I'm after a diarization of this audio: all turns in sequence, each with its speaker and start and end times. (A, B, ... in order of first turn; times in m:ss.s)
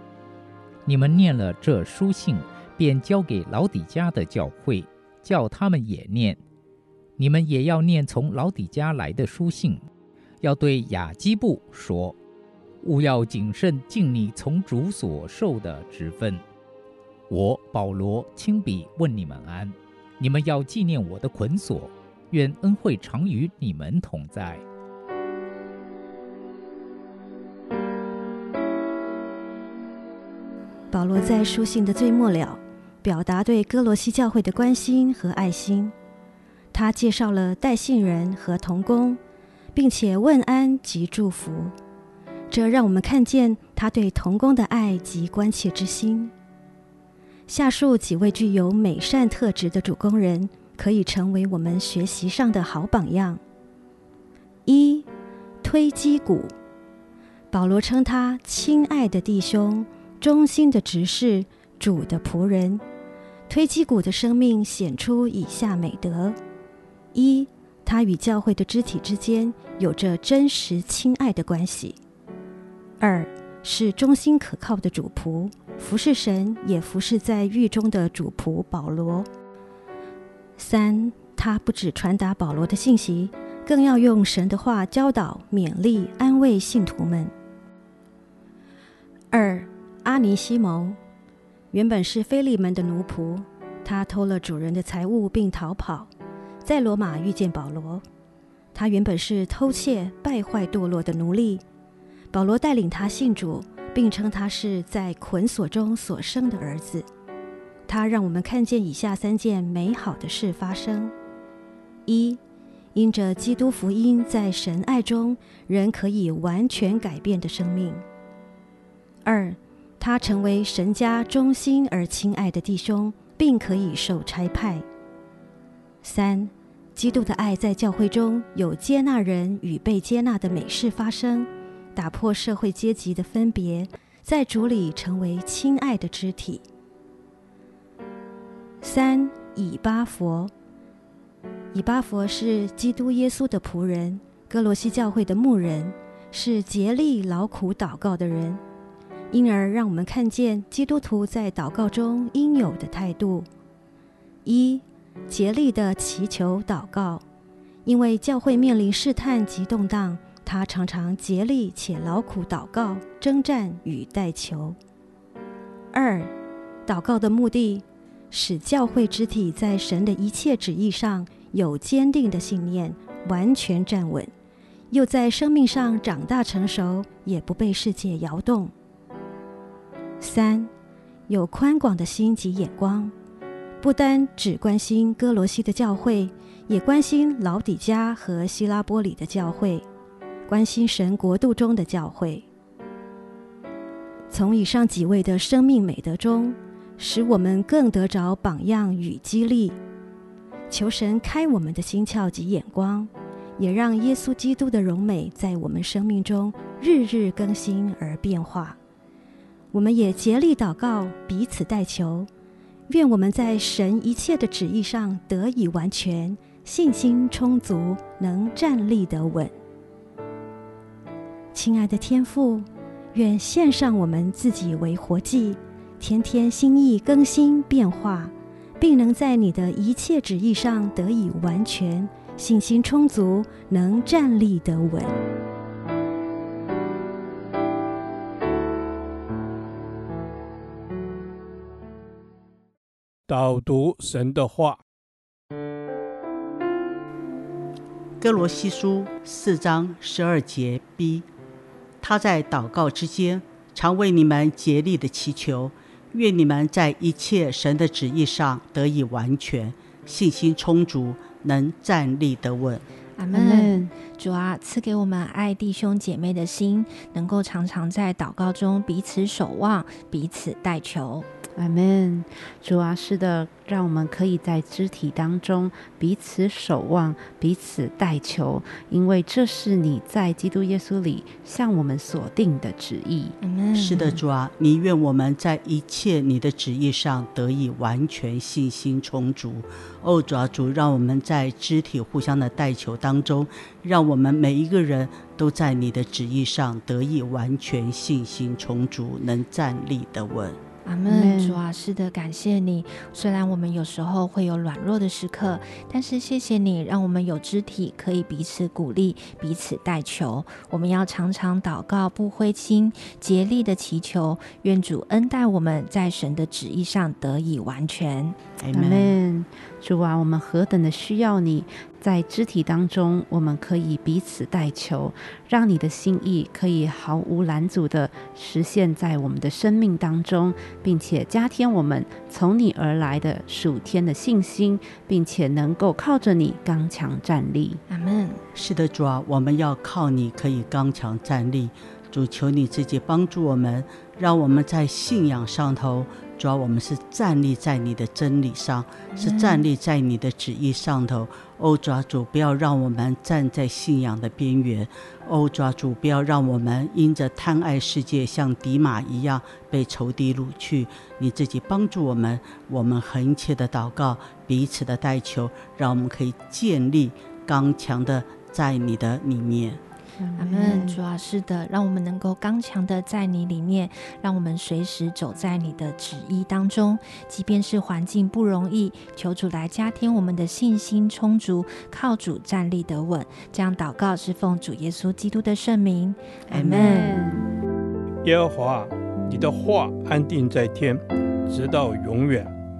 0:00.9-0:06.4 A
0:07.2-0:09.8 A
0:10.4-0:12.2 A
0:12.8-0:16.4 A
0:17.3-0:24.6 A
0:30.9-0:35.9 B
0:36.7-0:39.2 B
0:39.7-0:41.8 B
0:42.5-0:46.3 B
0:47.5-0:53.4 B
0:54.7-0:55.1 B
0:55.6-0:56.5 B
0:57.5-1:02.8 B
1:03.5-1:06.4 B
1:07.1-1:12.0 B
1:13.0-1:19.3 B
1:20.6-1:27.3 B
1:29.3-1:31.0 B
1:31.7-1:36.1 B
1:36.6-1:38.0 B
1:38.7-1:41.6 B
1:42.3-1:47.1 B
1:47.9-1:51.1 B
1:52.1-1:52.4 B
1:53.0-1:58.0 B
1:59.2-2:04.9 B
2:06.0-2:16.6 B
2:18.8-2:20.5 B
2:21.7-2:28.6 B
2:29.3-2:33.5 B
2:34.4-2:37.2 B
2:37.8-2:44.8 B
2:45.9-2:46.3 B
2:46.9-2:54.3 B
2:54.9-2:58.7 B
3:00.2-3:00.7 B
3:01.3-3:03.1 B
3:03.8-3:09.9 B
3:10.5-3:12.5 B
3:14.3-3:19.8 B
3:20.7-3:28.8 B
3:29.7-3:32.3 B
3:32.9-3:39.5 B
3:41.5-3:55.2 B
4:03.3-4:04.8 C
4:08.2-4:11.3 D
4:12.0-4:22.8 D
4:23.2-4:31.3 E
4:23.3-4:23.9 F
4:31.5-4:43.4 F
4:43.4-4:44.2 E
4:43.7-5:00.6 D
5:00.8-5:18.4 E
5:01.1-5:01.6 F
5:18.6-5:19.2 D
5:18.7-5:37.8 F
5:37.9-5:38.4 E
5:38.5-6:09.8 D
5:49.1-5:49.7 E
6:10.2-6:11.0 F
6:10.4-6:27.2 E
6:26.5-6:27.0 D
6:26.8-6:27.5 F
6:28.2-6:32.5 C